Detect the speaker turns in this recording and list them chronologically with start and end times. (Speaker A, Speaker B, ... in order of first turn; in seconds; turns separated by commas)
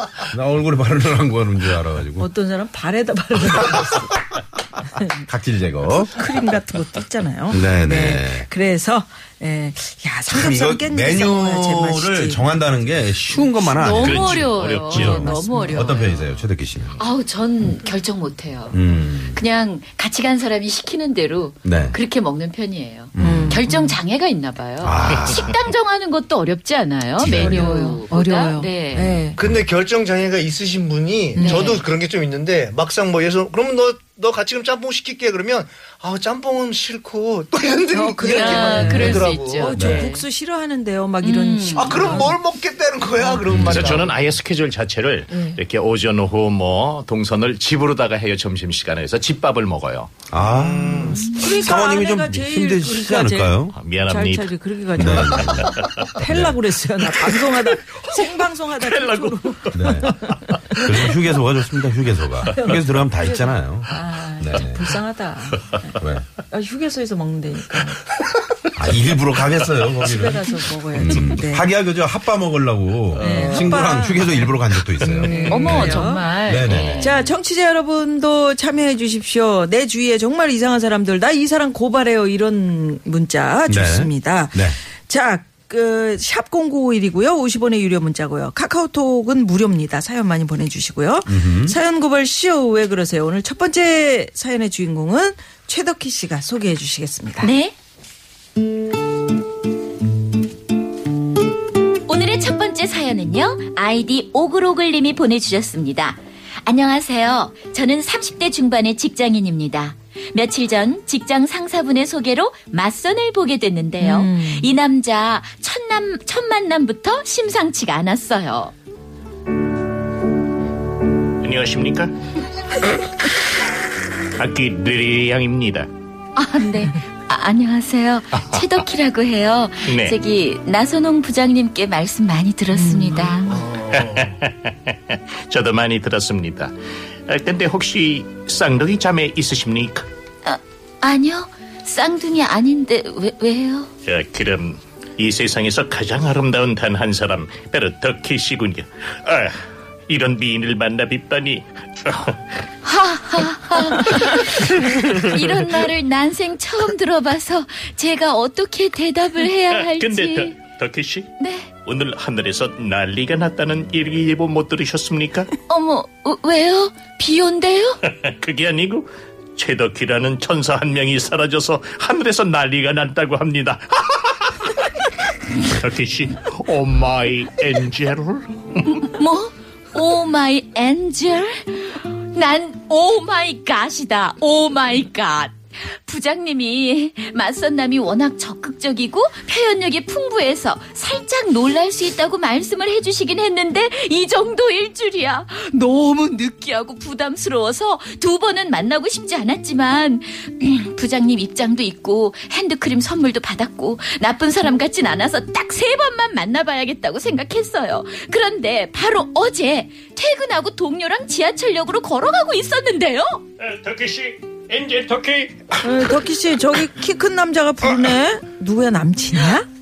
Speaker A: 0.3-2.3, Speaker B: 2.2-4.2, Speaker A: 3.5-4.0, Speaker B: 5.0-5.2, Speaker A: 5.1-6.2, Speaker B: 6.1-12.4, Speaker A: 7.5-8.5, Speaker A: 10.3-16.9, Speaker C: 13.7-16.3, Speaker D: 13.9-15.2, Speaker B: 14.9-15.9, Speaker C: 16.9-29.1, Speaker A: 18.7-19.4, Speaker A: 21.6-22.0, Speaker A: 23.1-23.6, Speaker B: 23.2-24.0, Speaker A: 24.8-25.5, Speaker A: 27.2-27.7, Speaker B: 27.2-29.4, Speaker A: 28.9-29.6, Speaker E: 29.4-39.7, Speaker B: 31.3-31.8, Speaker C: 31.4-31.8, Speaker B: 37.9-42.4, Speaker C: 38.2-40.2, Speaker A: 39.7-40.1, Speaker C: 41.2-42.3, Speaker E: 41.7-44.2, Speaker A: 43.4-44.0, Speaker D: 43.6-50.1, Speaker B: 45.3-45.6, Speaker A: 50.3-53.8, Speaker E: 50.4-51.2, Speaker B: 51.2-61.1, Speaker D: 53.7-56.0, Speaker A: 54.9-56.6, Speaker D: 58.8-60.5, Speaker A: 59.7-60.1, Speaker A: 60.7-65.0, Speaker B: 62.5-65.9, Speaker A: 66.0-66.2, Speaker B: 66.5-68.0, Speaker A: 68.7-77.0, Speaker B: 70.0-71.7, Speaker B: 73.2-74.5, Speaker B: 75.0-76.3, Speaker C: 75.3-77.3, Speaker D: 76.7-77.0, Speaker B: 77.0-97.5, Speaker A: 83.7-84.8, Speaker A: 91.3-91.8, Speaker C: 97.4-97.7, Speaker C: 102.1-118.7, Speaker B: 114.0-114.7, Speaker D: 121.4-122.1, Speaker D: 124.3-125.9, Speaker C: 126.3-133.6, Speaker D: 128.4-128.6, Speaker D: 129.8-130.2, Speaker B: 132.7-133.6, Speaker E: 133.5-134.3, Speaker D: 133.9-136.7, Speaker D: 137.3-140.1, Speaker C: 140.4-143.9, Speaker D: 144.1-152.5, Speaker C: 152.8-160.6, Speaker D: 154.1-155.2, Speaker D: 159.7-161.3, Speaker C: 161.4-161.7, Speaker D: 161.8-165.5, Speaker C: 165.7-168.0, Speaker D: 168.0-174.8, Speaker D: 175.5-178.8, Speaker C: 178.9-213.4, Speaker D: 213.6-216.1, Speaker B: 215.8-219.7